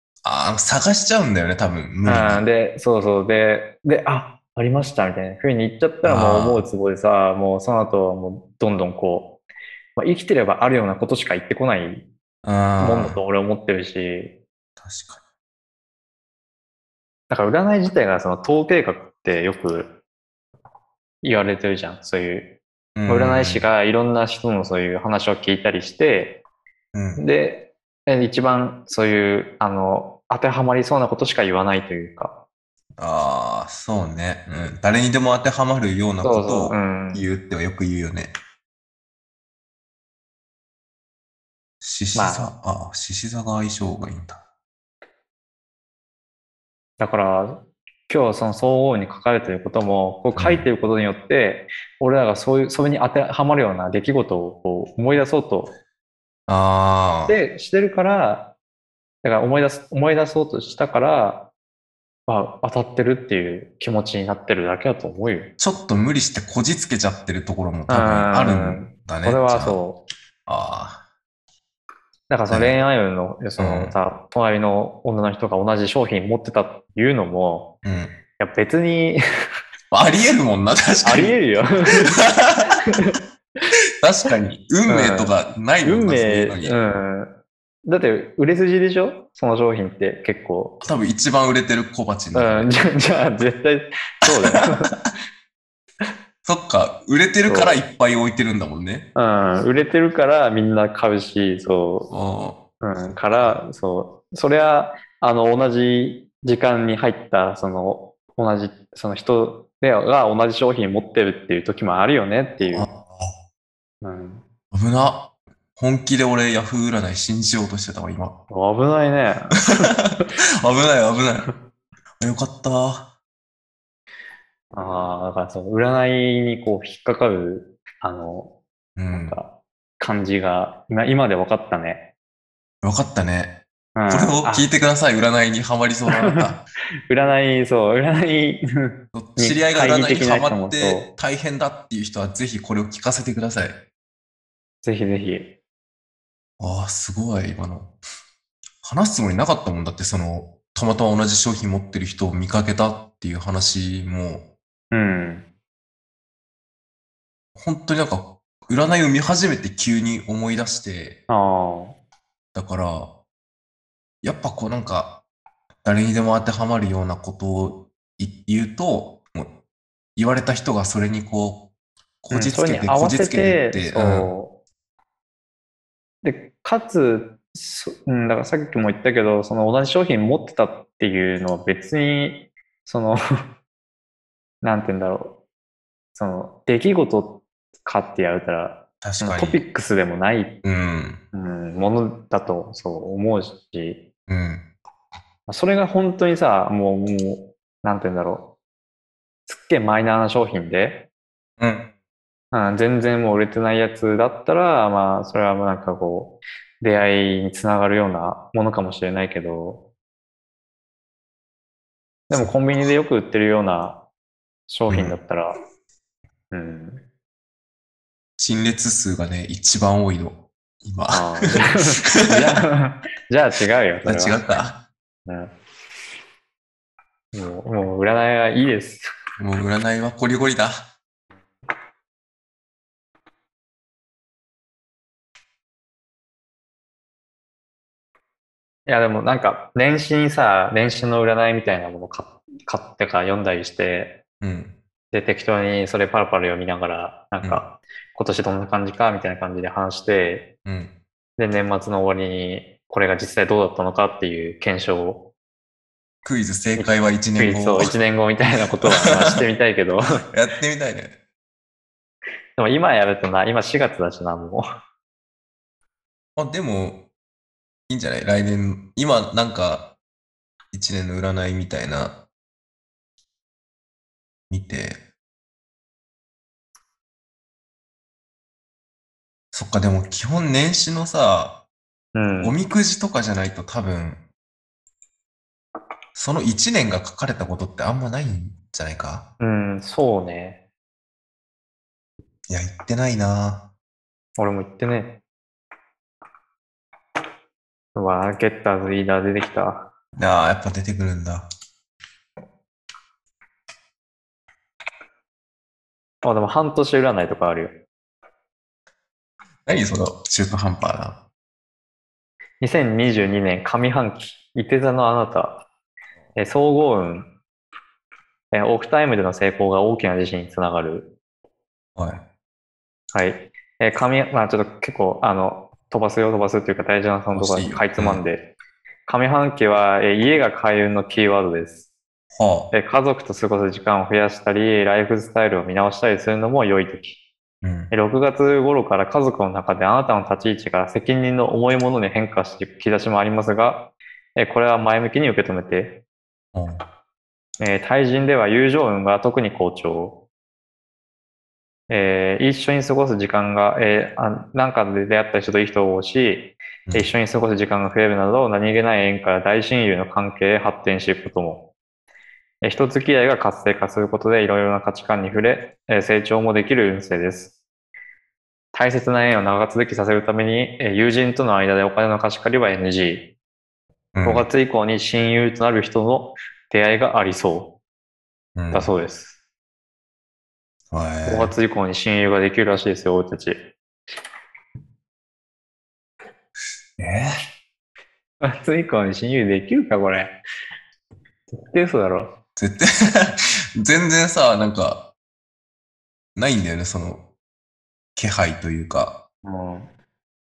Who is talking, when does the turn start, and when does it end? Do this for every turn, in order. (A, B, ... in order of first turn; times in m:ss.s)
0:00.2-0:02.4 A
0:02.0-0:09.3 B
0:06.0-0:06.6 A
0:10.0-0:12.0 B
0:12.4-0:13.2 A
0:12.8-0:14.3 B
0:14.8-0:15.2 A
0:17.3-0:19.9 B
0:21.2-0:22.4 B
0:23.0-0:23.6 A
0:23.1-0:26.3 B
0:26.9-0:27.2 A
0:27.2-0:32.3 B
0:33.0-0:38.3 A
0:36.2-0:37.2 B
0:41.8-0:44.4 A
0:42.1-0:42.5 B
0:47.0-0:55.7 B
0:50.3-0:50.6 A
0:56.5-0:57.4 A
0:57.3-0:58.4 B
0:59.2-1:01.4 B
1:02.3-1:05.5 B
1:05.6-1:09.8 A
1:07.9-1:10.0 B
1:10.4-1:11.0 A
1:12.3-1:17.6 B
1:12.5-1:12.8 A
1:13.6-1:13.9 A
1:17.8-1:18.1 A
1:18.4-1:19.2 B
1:19.9-1:21.4 A
1:21.0-1:22.2 B
1:21.9-1:22.8 A
1:22.8-1:23.2 B
1:24.0-1:26.8 A
1:24.9-1:27.3 B
1:27.9-1:30.7 B
1:30.8-1:32.7 A
1:32.3-1:34.9 B
1:34.3-1:35.0 A
1:36.4-1:39.0 A
1:37.4-1:37.8 B
1:39.2-1:42.1 B
1:42.1-1:43.6 A
1:42.8-1:52.9 B
1:52.6-1:53.3 A
1:54.0-1:54.4 B
1:54.7-1:55.2 A
1:55.8-1:58.3 A
1:58.5-1:59.9 B
1:59.7-2:01.4 A
2:02.2-2:03.0 A
2:04.7-2:08.5 B
2:09.0-2:09.4 A
2:09.1-2:09.5 B
2:10.0-2:12.0 B
2:12.8-2:13.5 A
2:14.0-2:14.7 B
2:14.1-2:16.6 A
2:16.1-2:16.5 B
2:17.1-2:21.0 B
2:19.1-2:23.8 A
2:24.8-2:25.4 B
2:26.6-2:27.9 A
2:28.8-2:34.4 A
2:34.9-2:35.4 B
2:37.6-2:41.2 A
2:41.3-2:41.9 B
2:42.5-2:43.1 A
2:44.2-2:45.1 A
2:45.8-2:49.5 A
2:50.2-2:51.6 A
2:52.2-2:54.3 A
2:52.3-2:54.5 B
2:56.2-3:03.2 B
3:04.6-3:05.3 B
3:06.2-3:07.3 B
3:07.8-3:10.5 B
3:09.0-3:09.6 A
3:10.6-3:11.2 A
3:11.3-3:14.0 B
3:14.3-3:14.6 A
3:15.5-3:18.4 B
3:19.5-3:21.0 B
3:21.6-3:21.9 A
3:22.5-3:29.8 B
3:32.3-3:34.0 B
3:32.3-3:32.6 A
3:34.7-3:35.6 B
3:34.9-3:35.2 A
3:36.5-3:37.0 B
3:38.4-3:42.6 A
3:41.1-3:44.4 B
3:44.0-3:44.8 A
3:45.2-3:45.5 B
3:47.3-3:49.1 B
3:49.4-3:50.8 A
3:58.9-4:04.1 B
4:04.4-4:04.7 A
4:05.1-4:10.4 B
4:10.6-4:10.9 A
4:11.4-4:15.2 B
4:16.2-4:17.9 A
4:16.8-4:20.1 B
4:18.8-4:19.4 A
4:20.3-4:21.1 A
4:22.6-4:24.6 B
4:26.4-4:27.0 A
4:27.9-4:29.9 A
4:30.7-4:32.1 A
4:34.5-4:35.0 A
4:39.5-4:41.5 A
4:42.1-4:42.5 B
4:42.4-4:44.2 A
4:46.1-4:49.2 A
4:49.4-4:50.6 B
4:52.5-4:53.6 A
4:54.4-4:55.1 B
4:57.9-4:59.8 B
5:00.2-5:01.4 A
5:06.2-5:07.7 B
5:09.6-5:11.2 A
5:12.6-5:15.6 B
5:16.4-5:17.3 B
5:18.5-5:21.0 B
5:22.0-5:22.2 A
5:23.1-5:28.4 B
5:27.3-5:28.2 A
5:29.0-5:31.8 B
5:32.3-5:32.7 A
5:32.7-5:37.2 B
5:37.6-5:37.9 A
5:37.9-5:43.8 B
5:44.4-5:45.9 B
5:46.5-5:46.8 A
5:47.6-5:50.1 B
5:51.9-6:01.6 B
6:02.6-6:07.5 B
6:08.7-6:13.2 B
6:14.1-6:14.5 A
6:14.2-6:17.7 B
6:18.6-6:18.9 A
6:18.7-6:19.3 B
6:20.9-6:21.5 A
6:21.2-6:23.6 B
6:27.0-6:27.3 A
6:28.4-6:30.3 B
6:31.5-6:32.3 B
6:32.6-6:35.0 A
6:36.4-6:37.2 A
6:38.2-6:39.1 A
6:39.4-6:39.9 B